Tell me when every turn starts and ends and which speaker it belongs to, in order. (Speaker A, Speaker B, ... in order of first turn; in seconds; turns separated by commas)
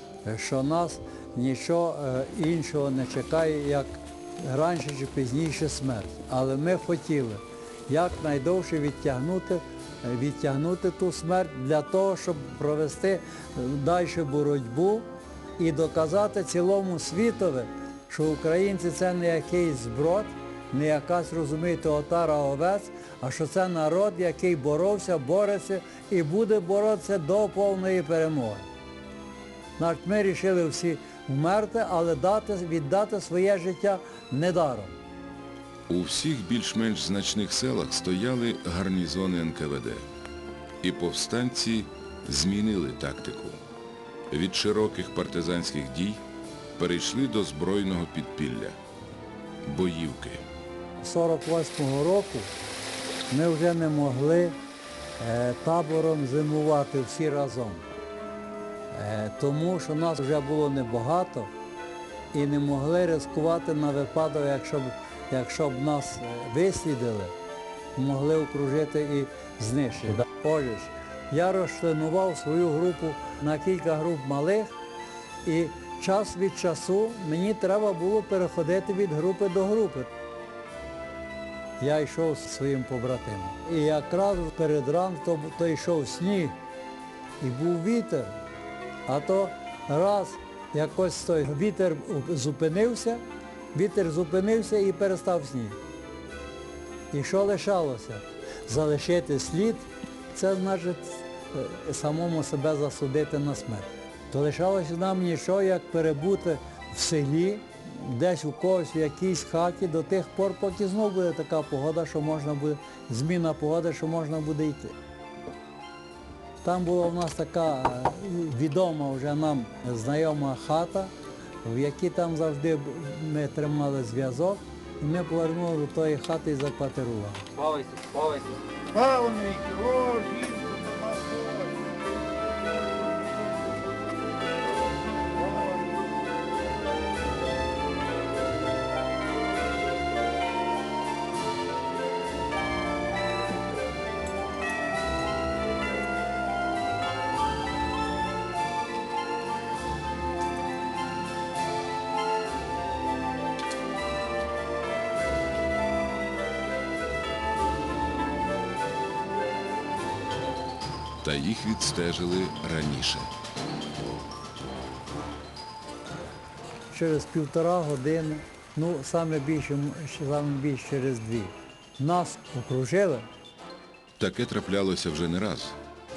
Speaker A: 0.2-28.7, Speaker A: 29.8-35.0, Speaker B: 35.9-40.0, Speaker B: 40.8-43.6, Speaker B: 44.3-46.2, Speaker B: 46.8-48.8, Speaker B: 49.6-50.4, Speaker A: 51.0-52.5, Speaker A: 53.3-54.6, Speaker A: 55.2-57.9, Speaker A: 58.9-61.5, Speaker A: 62.3-67.3, Speaker A: 68.0-74.7, Speaker A: 75.5-80.1, Speaker A: 81.8-86.6, Speaker A: 87.4-88.3, Speaker A: 89.1-95.8, Speaker A: 97.1-114.9, Speaker A: 116.6-121.1, Speaker A: 121.6-127.6, Speaker C: 127.7-131.8, Speaker C: 132.9-133.6, Speaker C: 135.4-136.0, Speaker B: 161.2-163.3, Speaker A: 166.9-173.3, Speaker B: 174.2-175.8